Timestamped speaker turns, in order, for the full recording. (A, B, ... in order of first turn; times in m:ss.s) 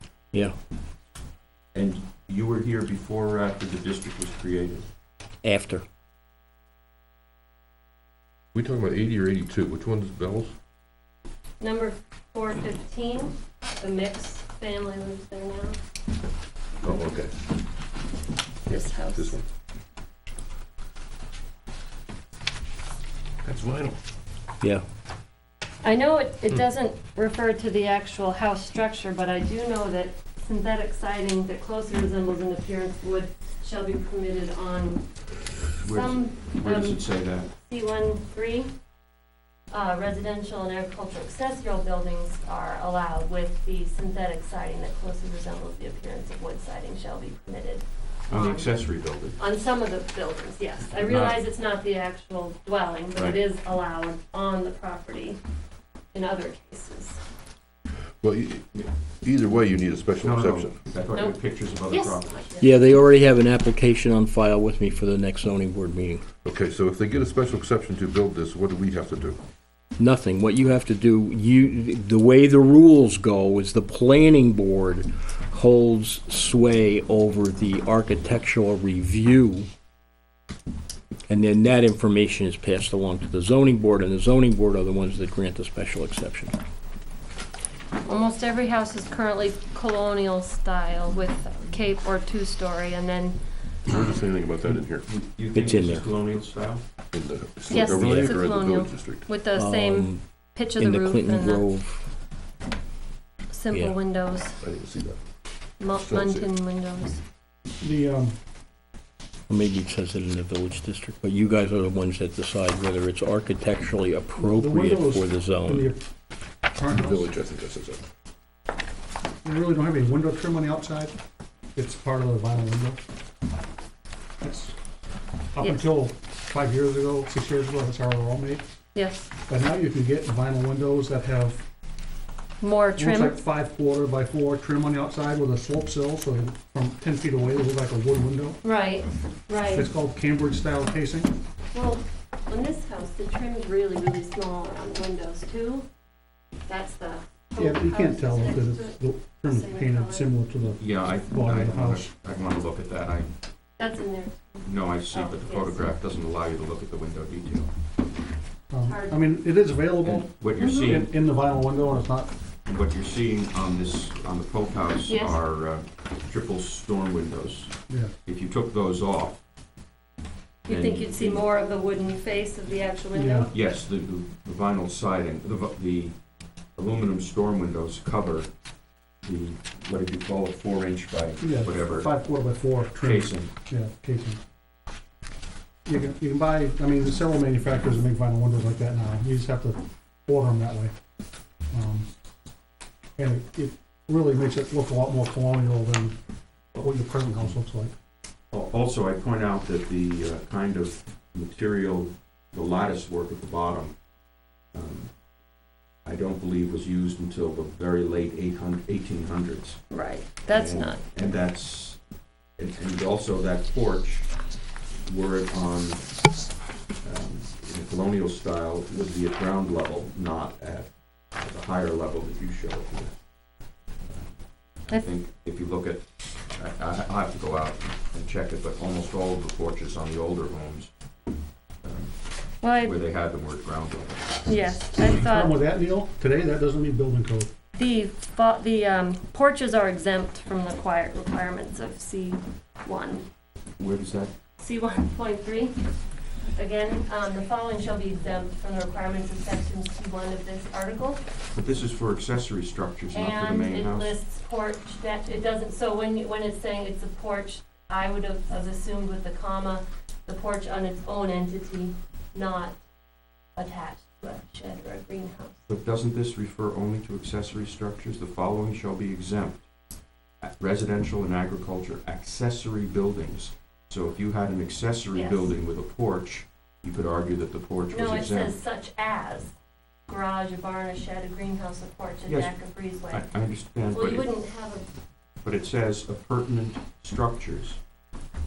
0:01.7-0:04.9 A
0:05.4-0:05.8 B
0:08.5-0:10.5 C
0:11.6-0:15.8 D
0:16.8-0:17.3 C
0:18.7-0:19.4 D
0:19.1-0:19.4 C
0:23.4-0:24.0 C
0:25.8-0:35.0 D
0:35.8-0:37.5 A
0:35.8-0:37.0 D
0:37.6-0:38.7 D
0:39.7-0:48.8 D
0:48.3-0:49.4 A
0:49.4-0:55.4 D
0:50.9-0:51.4 A
0:56.1-0:57.2 D
0:58.2-1:00.8 C
1:00.2-1:02.6 A
1:01.1-1:02.7 D
1:02.6-1:06.2 B
1:06.4-1:09.4 C
1:10.0-1:19.7 B
1:21.3-1:26.6 B
1:28.0-1:33.4 D
1:33.8-1:35.1 C
1:34.7-1:36.8 A
1:35.5-1:36.1 B
1:37.1-1:39.2 C
1:37.7-1:41.7 D
1:37.8-1:38.4 B
1:39.5-1:40.2 B
1:40.8-1:42.1 B
1:43.5-1:44.6 D
1:44.6-1:45.2 C
1:45.8-1:47.2 D
1:45.9-1:46.5 C
1:47.8-1:48.4 E
1:49.5-1:55.9 B
1:54.4-1:56.0 E
1:56.8-1:57.3 E
1:56.9-1:58.0 C
1:59.4-2:01.2 E
2:01.8-2:03.0 E
2:04.4-2:04.8 E
2:05.5-2:08.6 E
2:05.6-2:05.9 D
2:08.9-2:09.3 D
2:09.5-2:11.6 E
2:12.6-2:13.4 D
2:13.0-2:18.6 E
2:18.6-2:19.9 D
2:19.7-2:21.3 E
2:21.7-2:25.9 D
2:26.7-2:30.4 D
2:27.6-2:32.1 E
2:30.8-2:33.3 A
2:33.8-2:35.9 D
2:34.6-2:37.7 A
2:38.7-2:40.3 E
2:38.8-2:39.4 D
2:40.0-2:41.1 A
2:40.6-2:41.0 D
2:40.9-2:42.3 E
2:42.7-2:47.7 A
2:45.1-2:45.4 D
2:48.2-2:49.4 A
2:50.7-2:53.5 D
2:50.7-2:51.5 A
2:53.1-2:53.5 E
2:53.5-2:56.2 A
2:56.8-2:58.5 A
2:59.2-3:02.1 A
3:01.4-3:04.4 E
3:02.9-3:03.5 A
3:05.8-3:10.9 E
3:11.7-3:12.1 E
3:13.2-3:16.2 E
3:16.8-3:17.9 E
3:18.5-3:23.9 A
3:24.7-3:25.1 A
3:26.0-3:29.8 A
3:29.9-3:31.1 D
3:30.5-3:32.0 A
3:32.6-3:34.3 A
3:35.0-3:36.0 A
3:37.0-3:43.2 A
3:44.1-3:44.3 A
3:44.9-3:50.9 A
3:51.8-3:52.1 A
3:52.6-3:53.0 D
3:52.8-3:54.3 A
3:54.5-3:55.6 D
3:55.2-3:57.5 E
3:57.8-4:03.2 D
4:03.8-4:04.3 A
4:04.6-4:05.8 D
4:06.6-4:11.2 D
4:11.5-4:14.2 A
4:13.1-4:22.8 D
4:23.6-4:25.6 D
4:25.7-4:29.6 A
4:30.4-4:38.6 A
4:35.1-4:35.5 D
4:37.9-4:39.5 D
4:40.1-4:43.2 D
4:42.3-4:42.5 A
4:43.1-4:44.3 A
4:43.9-4:44.9 D
4:45.4-4:47.8 A